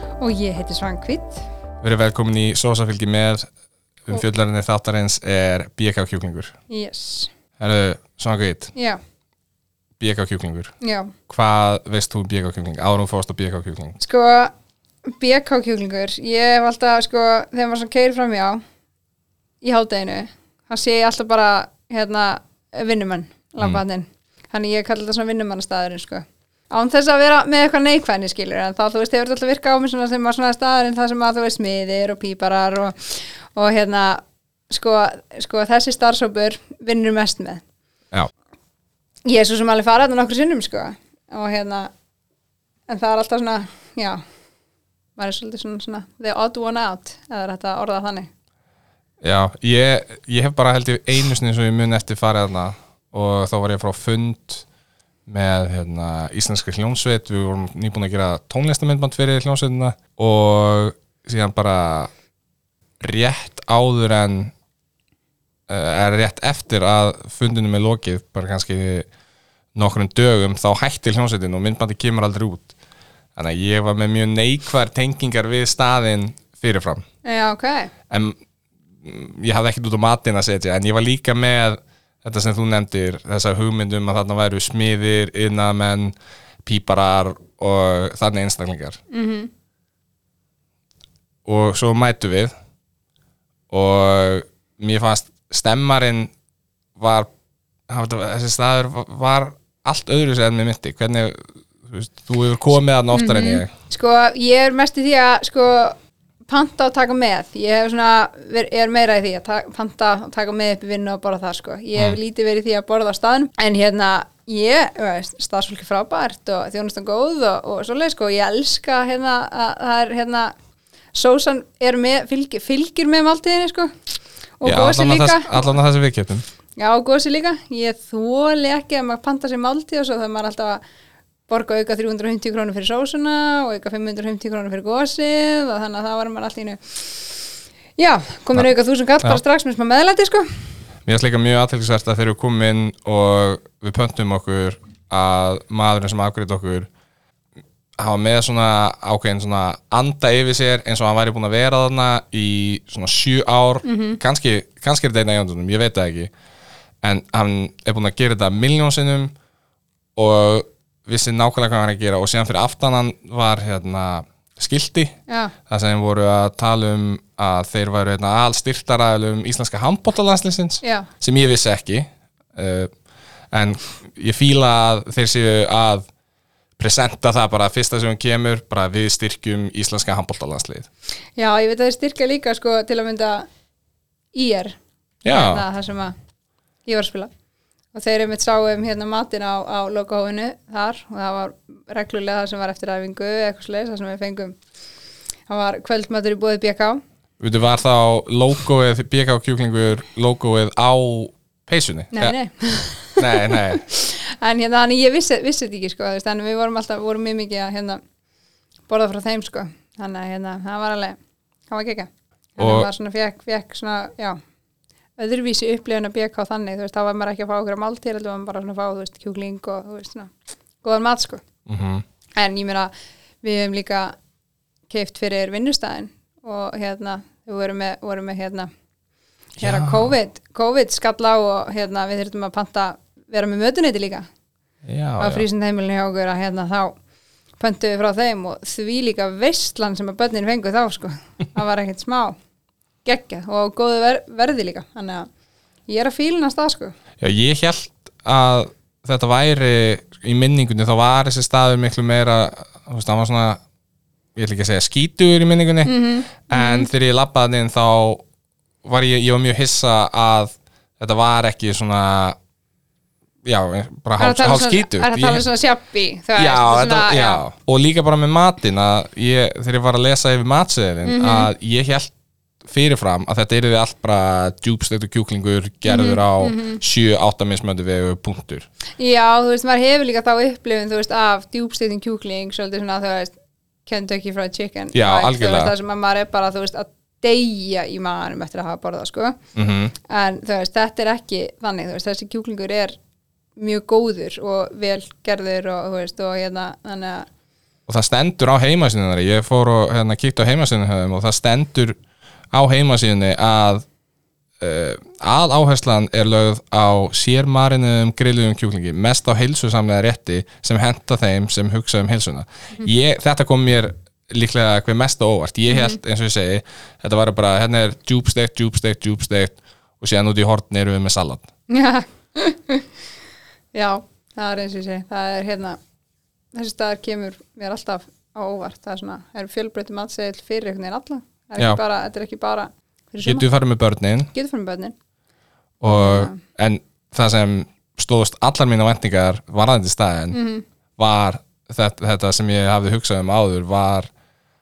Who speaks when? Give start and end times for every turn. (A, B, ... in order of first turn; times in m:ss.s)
0:00.2-0:01.4 A
0:01.8-0:03.5 B
0:04.1-0:06.5 B
0:06.7-0:07.3 A
0:07.6-0:08.7 B
0:08.8-0:09.0 A
0:10.0-0:10.7 B
0:10.8-0:11.2 A
0:11.3-0:14.0 B
0:14.0-0:14.5 A
0:15.1-0:18.6 A
0:19.6-0:37.6 A
0:39.2-0:41.9 A
0:42.9-0:44.2 A
0:45.2-0:48.3 A
0:49.2-0:54.6 B
0:55.3-1:02.1 B
1:03.0-1:04.5 B
1:05.7-1:09.1 B
1:09.8-1:12.7 B
1:13.4-1:17.0 B
1:17.2-1:17.9 A
1:18.1-1:18.4 B
1:19.0-1:29.0 B
1:29.1-1:29.5 A
1:31.5-1:32.5 B
1:33.7-1:36.3 B
1:37.0-1:37.3 B
1:37.9-1:43.7 B
1:43.1-1:46.0 A
1:46.5-2:00.5 A
2:01.2-2:03.9 A
2:04.6-2:05.7 A
2:04.6-2:06.4 B
2:06.8-2:10.8 A
2:11.5-2:20.5 A
2:21.1-2:26.9 B
2:28.0-2:36.3 B
2:33.8-2:34.2 A
2:37.0-2:39.3 B
2:40.2-2:45.1 B
2:45.3-2:45.5 A
2:45.7-2:52.9 B
2:50.8-2:51.1 A
2:53.5-2:56.1 B
2:56.8-3:00.9 B
3:01.4-3:03.5 A
3:04.3-3:04.8 A
3:05.2-3:05.6 B
3:05.3-3:06.1 A
3:06.8-3:07.3 A
3:07.9-3:14.6 A
3:15.5-3:17.0 A
3:17.4-3:22.4 B
3:22.1-3:28.0 A
3:23.2-3:23.8 B
3:28.9-3:31.2 A
3:31.7-3:34.4 A
3:32.6-3:32.9 B
3:35.2-3:40.3 A
3:40.8-3:41.4 A
3:41.7-3:42.0 B
3:42.4-3:42.9 A
3:43.4-3:44.1 A
3:44.9-3:48.7 A
3:49.6-3:50.1 B
3:49.6-3:54.2 A
3:54.9-3:55.4 B
3:55.2-3:57.0 A
3:57.6-4:02.4 A
4:03.0-4:05.3 A
4:05.9-4:06.9 A
4:07.2-4:13.6 B
4:14.4-4:18.2 B
4:15.8-4:16.9 A
4:18.8-4:22.4 B
4:23.5-4:25.4 B
4:24.2-4:27.4 A
4:26.4-4:32.1 B
4:31.0-4:31.5 A
4:32.6-4:38.7 B
4:35.9-4:36.8 A
4:39.0-4:49.4 A
4:44.9-4:45.7 B
4:49.6-4:49.9 B
4:50.1-4:53.0 A
4:53.6-4:57.3 A
4:57.9-5:02.0 B
5:02.5-5:03.8 B
5:04.6-5:21.5 B
5:15.7-5:16.0 A
5:21.7-5:22.8 A
5:23.7-5:25.8 A
5:26.5-5:33.4 A
5:33.2-5:34.3 B
5:34.3-5:35.0 A
5:35.8-5:40.4 B
5:35.9-5:36.4 A
5:40.3-5:40.6 A
5:41.0-5:44.1 B